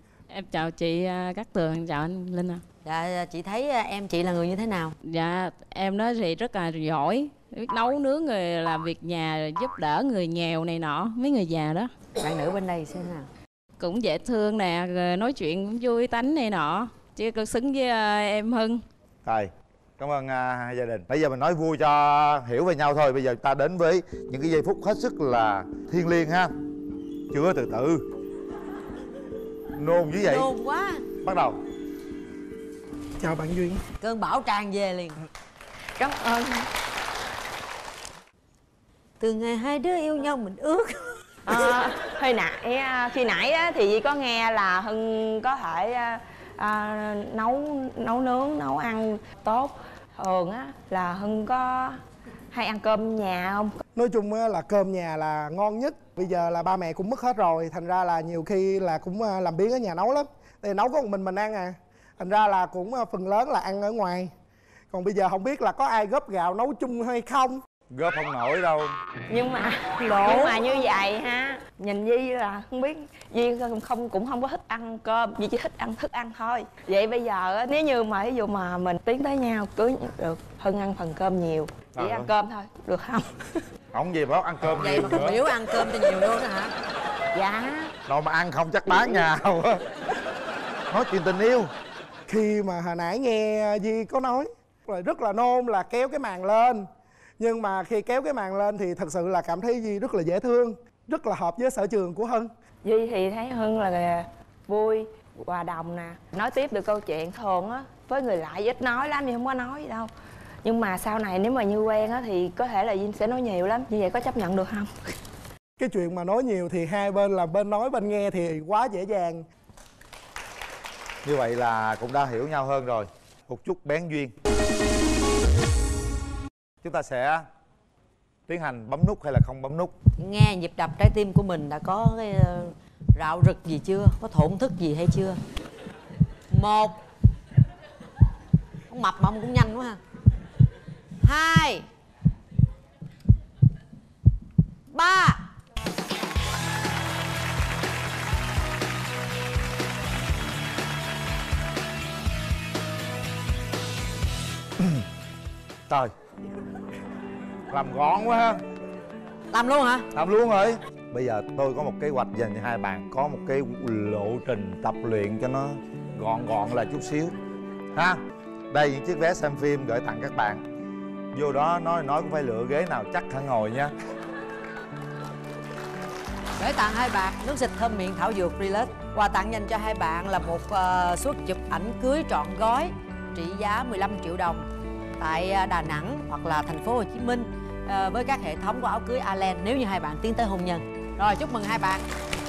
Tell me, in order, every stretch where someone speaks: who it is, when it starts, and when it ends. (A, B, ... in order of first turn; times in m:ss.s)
0:00.3-0:02.6 A
0:02.8-0:04.9 B
0:05.0-0:11.9 A
0:12.2-0:13.3 B
0:13.8-0:18.8 A
0:19.2-0:26.5 C
0:27.3-0:28.0 C
0:29.8-0:30.5 C
0:30.2-0:31.0 B
0:31.2-0:31.6 C
0:33.2-0:33.8 D
0:34.0-0:35.2 B
0:36.0-0:36.7 E
0:39.2-0:41.2 B
0:41.4-0:52.0 E
0:52.5-0:53.8 E
0:53.9-1:04.3 D
1:04.9-1:07.6 D
1:07.9-1:08.9 C
1:09.3-1:23.4 E
1:10.0-1:10.8 B
1:21.9-1:22.3 C
1:23.9-1:25.4 C
1:24.6-1:26.7 B
1:27.3-1:27.9 E
1:28.0-1:29.8 C
1:30.9-1:31.7 C
1:32.3-1:36.9 D
1:37.4-1:42.5 D
1:42.8-1:50.1 E
1:50.6-1:54.9 E
1:55.8-1:59.4 D
2:01.2-2:04.3 C
2:06.8-2:07.4 C
2:08.5-2:09.9 C
2:10.2-2:15.4 B
2:16.5-2:17.0 B
2:18.9-2:20.0 B
2:21.2-2:21.8 B
2:24.9-2:25.4 B
2:34.8-2:35.0 C
2:37.7-2:38.6 C
2:39.5-2:40.0 B
2:40.1-2:47.3 C
2:47.9-2:50.6 C
2:51.3-2:53.9 C
2:56.6-3:04.6 B
3:05.2-3:12.0 B